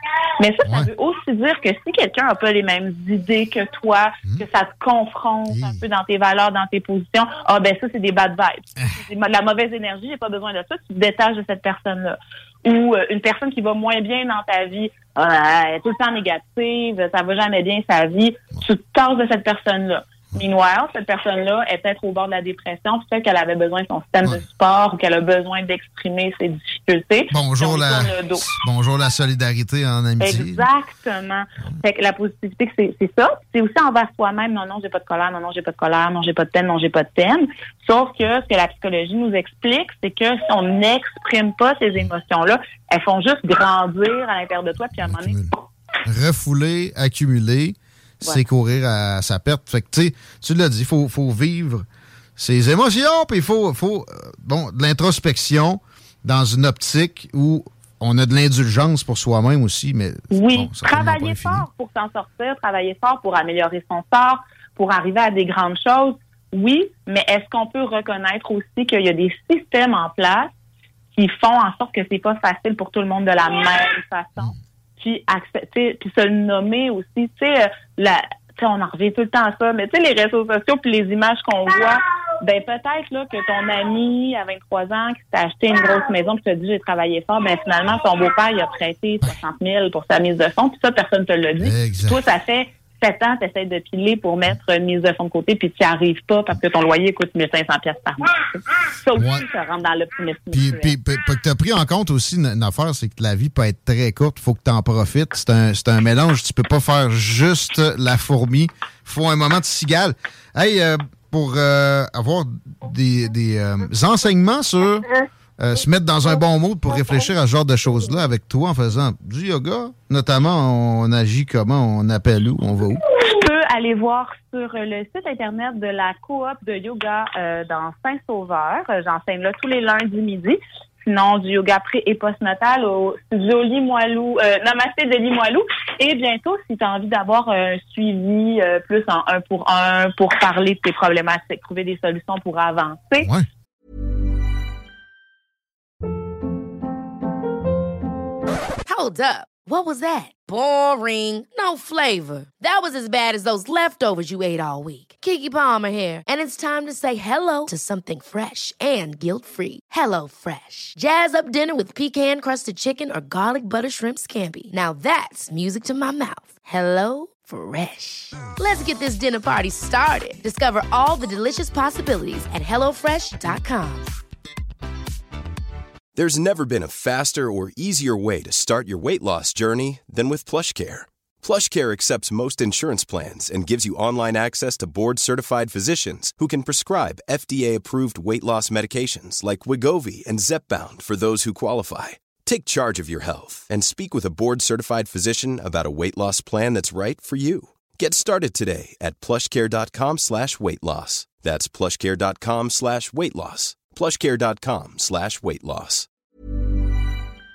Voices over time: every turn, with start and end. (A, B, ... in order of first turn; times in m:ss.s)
0:00.4-0:28.5 A
0:00.6-0:00.9 B
0:05.5-0:05.8 B
0:27.3-0:30.6 B
0:30.2-0:45.4 A
0:45.0-0:45.5 B
0:46.0-0:51.8 B
0:52.4-1:01.7 B
1:00.3-1:10.5 A
1:11.1-1:40.9 A
1:31.6-1:32.2 B
1:39.1-1:39.4 B
1:40.5-1:55.1 B
1:55.6-2:03.0 B
2:03.2-2:23.3 A
2:23.2-2:23.4 B
2:28.8-2:54.1 C
2:56.1-3:26.1 D